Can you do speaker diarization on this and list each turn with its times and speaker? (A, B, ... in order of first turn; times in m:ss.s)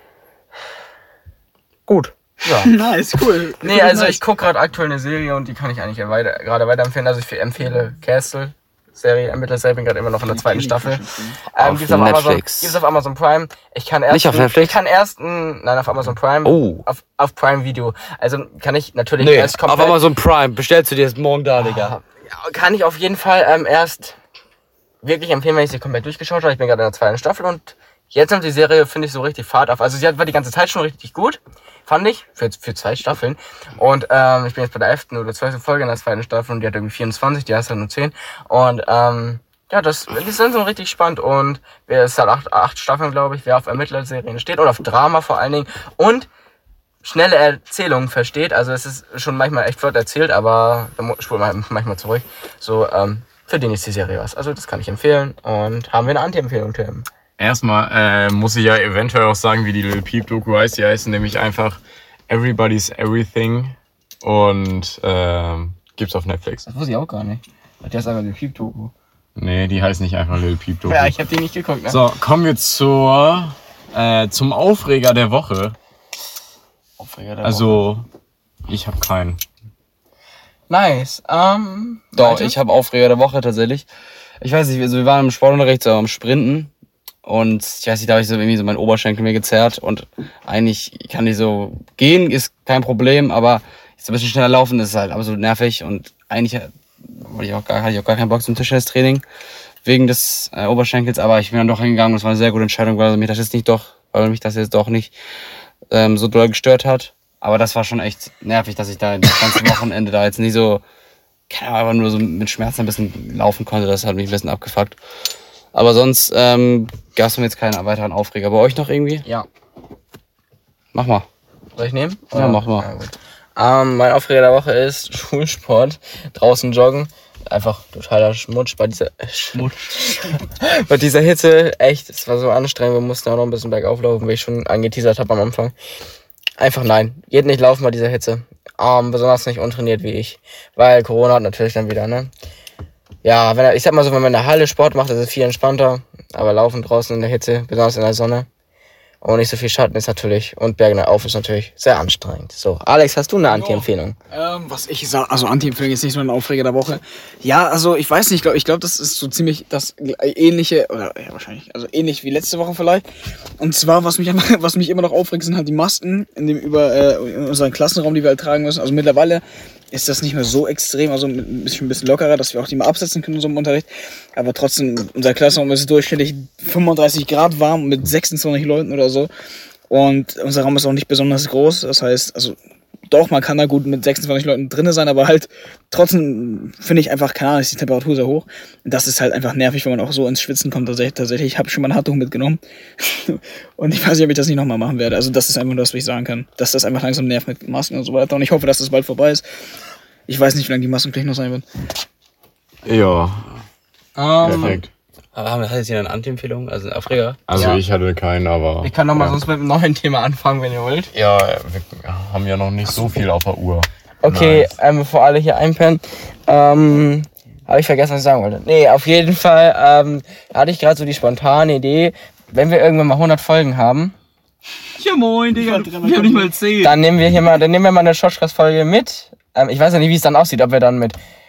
0:01.9-0:02.6 A
0:02.5-0:04.2 B
0:03.6-0:20.0 C
0:10.2-0:11.4 B
0:11.6-0:12.8 A
0:14.1-0:14.8 A
0:16.4-0:16.8 A
0:19.2-0:21.9 A
0:21.6-0:24.2 C
0:25.0-0:46.3 C
0:47.0-0:57.0 C
0:57.4-1:06.7 D
1:06.7-1:08.9 C
1:09.4-1:11.1 D
1:10.9-1:12.0 C
1:11.9-1:15.8 D
1:17.0-1:17.8 A
1:17.4-1:18.0 D
1:18.7-1:19.4 D
1:20.7-1:22.5 C
1:22.2-1:23.9 A
1:24.4-1:26.7 A
1:27.2-1:39.2 A
1:39.8-1:45.1 A
1:45.9-1:50.8 A
1:51.5-1:55.0 A
1:55.7-1:59.2 A
2:00.9-2:01.2 A
2:01.8-2:15.7 C
2:02.3-2:02.9 A
2:09.5-2:10.3 A
2:16.6-2:22.3 C
2:23.2-2:28.5 C
2:29.2-2:34.1 C
2:33.5-2:43.0 B
2:43.6-2:59.3 B
2:59.9-3:19.4 B
3:20.3-3:21.6 B
3:22.8-3:23.5 D
3:24.2-3:24.8 C
3:24.4-3:24.9 D
3:25.3-3:27.8 A
3:27.5-3:29.4 D
3:28.8-3:31.1 C
3:31.1-3:34.7 D
3:34.2-3:44.1 C
3:45.0-3:47.0 A
3:45.5-3:46.5 B
3:46.8-3:51.2 C